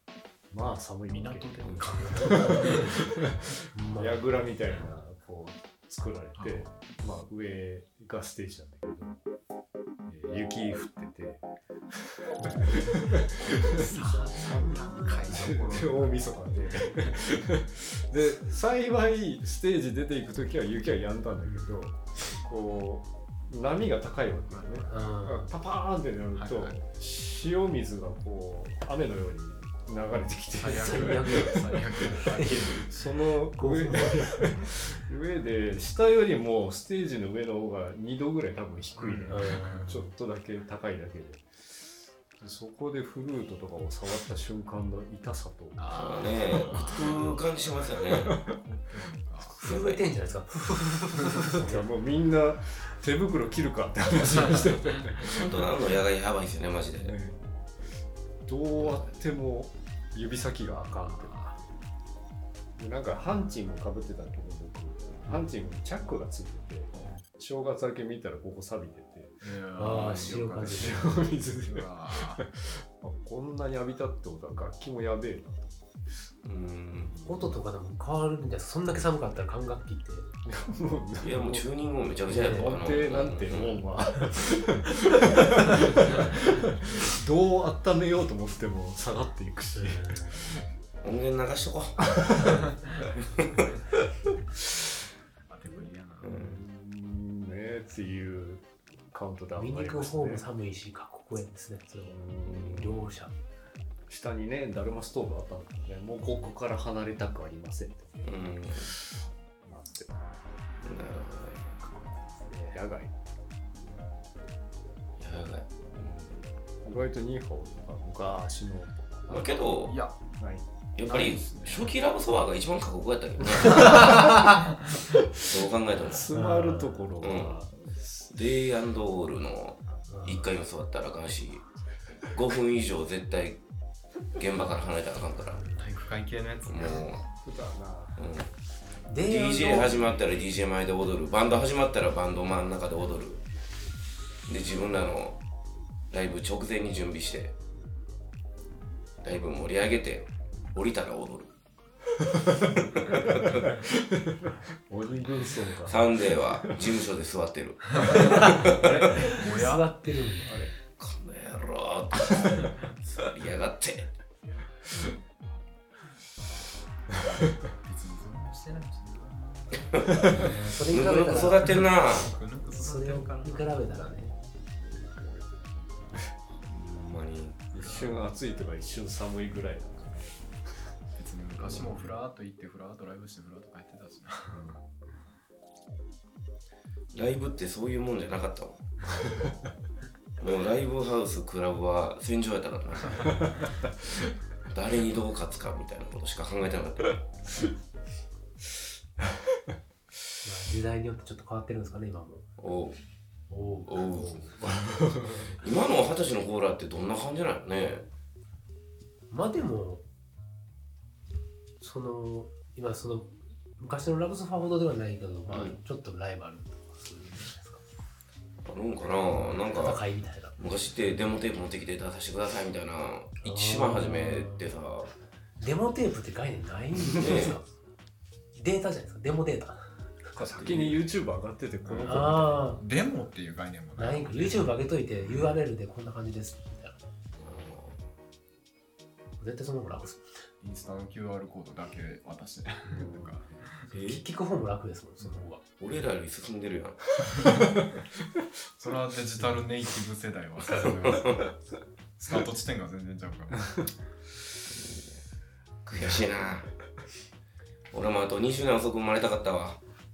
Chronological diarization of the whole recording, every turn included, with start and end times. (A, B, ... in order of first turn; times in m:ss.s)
0:00.5-0:03.4 A
0:01.1-0:03.1 B
0:01.6-0:01.9 C
0:01.8-0:03.0 D
0:03.7-0:04.2 D
0:04.0-0:09.2 A
0:06.4-0:06.7 B
0:10.1-0:11.4 A
0:12.4-0:41.7 A
0:13.6-0:17.2 B
0:14.0-0:15.2 D
0:21.4-0:21.8 D
0:24.5-0:25.0 B
0:24.9-0:25.5 D
0:26.3-0:26.8 B
0:30.6-0:33.0 B
0:30.6-0:32.8 D
0:33.5-0:34.7 D
0:39.0-0:40.0 B
0:39.3-0:39.8 D
0:42.4-0:45.9 A
0:45.8-0:47.5 B
0:45.9-0:48.4 C
0:46.5-0:46.9 A
0:48.2-0:48.6 A
0:48.5-0:49.6 B
0:49.6-0:51.8 D
0:49.6-0:50.1 C
0:51.2-0:51.5 B
0:51.4-0:55.8 A
0:54.4-0:55.6 B
0:55.4-0:57.2 C
0:56.9-0:57.4 A
0:58.5-1:01.7 A
1:01.1-1:01.5 B
1:02.8-1:09.4 A
1:06.9-1:07.2 B
1:09.4-1:11.1 B
1:09.7-1:11.1 D
1:10.6-1:15.8 A
1:11.6-1:12.4 B
1:16.4-1:17.1 C
1:16.9-1:17.5 A
1:17.2-1:20.3 D
1:20.4-1:21.6 A
1:21.2-1:23.8 C
1:22.3-1:30.6 A
1:22.3-1:22.7 D
1:29.7-1:30.5 D
1:31.0-1:33.5 C
1:32.1-1:32.5 A
1:35.5-1:36.3 B
1:36.2-1:36.6 C
1:36.3-1:40.4 A
1:39.6-1:43.3 D
1:42.0-1:43.1 A
1:44.1-1:50.2 A
1:48.2-1:48.9 C
1:50.8-1:51.7 C
1:51.8-1:52.8 D
1:52.7-1:53.1 A
1:55.2-1:56.4 C
1:56.8-1:59.8 A
1:59.3-2:00.0 C
1:59.9-2:00.2 B
2:00.4-2:00.6 A
2:01.0-2:04.3 C
2:01.0-2:01.9 B
2:03.7-2:04.4 B
2:05.4-2:06.3 C
2:06.0-2:08.3 A
2:06.3-2:07.0 D
2:07.2-2:07.6 C
2:08.3-2:11.6 C
2:10.1-2:10.5 D
2:12.3-2:13.6 C
2:14.4-2:15.6 C
2:15.5-2:15.9 D
2:15.8-2:17.2 B
2:16.6-2:17.2 C
2:17.4-2:18.2 A
2:18.2-2:18.5 C
2:19.1-2:20.2 D
2:19.2-2:23.4 C
2:24.5-2:25.4 C
2:26.1-2:27.5 C
2:29.2-2:31.5 C
2:33.0-2:33.4 C
2:33.3-2:36.8 A
2:35.8-2:39.0 C
2:38.0-2:39.9 B
2:38.1-2:40.6 D
2:40.4-2:40.7 A
2:41.0-2:44.1 C
2:47.2-2:50.8 B
2:50.0-2:52.3 C
2:50.4-2:51.8 D
2:51.6-2:54.5 B
2:52.7-2:54.3 D
2:54.8-2:56.3 A
2:56.6-2:57.6 C
2:57.7-3:00.5 A
2:57.8-2:58.1 D
3:01.2-3:04.6 B
3:01.6-3:02.0 A
3:04.5-3:04.8 A
3:07.1-3:08.8 C
3:09.1-3:09.5 A
3:10.4-3:13.4 C
3:14.7-3:17.2 C
3:20.4-3:22.4 D
3:22.6-3:23.0 C
3:23.5-3:24.6 D
3:23.8-3:24.4 C
3:24.6-3:25.5 A
3:25.6-3:28.0 C
3:29.3-3:30.0 D
3:31.8-3:37.8 D
3:35.5-3:35.8 C
3:38.6-3:40.0 C
3:39.3-3:40.6 D
3:40.6-3:45.1 C
3:43.4-3:44.6 D
3:45.6-3:47.6 D
3:47.1-3:47.6 C
3:48.5-3:49.8 D
3:50.3-3:52.8 A
3:50.6-3:51.0 C
3:52.0-3:52.8 D
3:52.8-3:55.5 B
3:54.0-3:57.0 D
3:57.4-3:58.0 C
3:59.4-4:00.2 D
4:00.6-4:03.7 B
4:02.9-4:03.3 A
4:03.9-4:05.6 D
4:05.8-4:07.0 C
4:07.4-4:07.8 B
4:08.8-4:11.4 B
4:10.7-4:11.5 C
4:12.2-4:13.9 B
4:14.6-4:15.2 C
4:15.8-4:16.7 C
4:17.9-4:19.8 C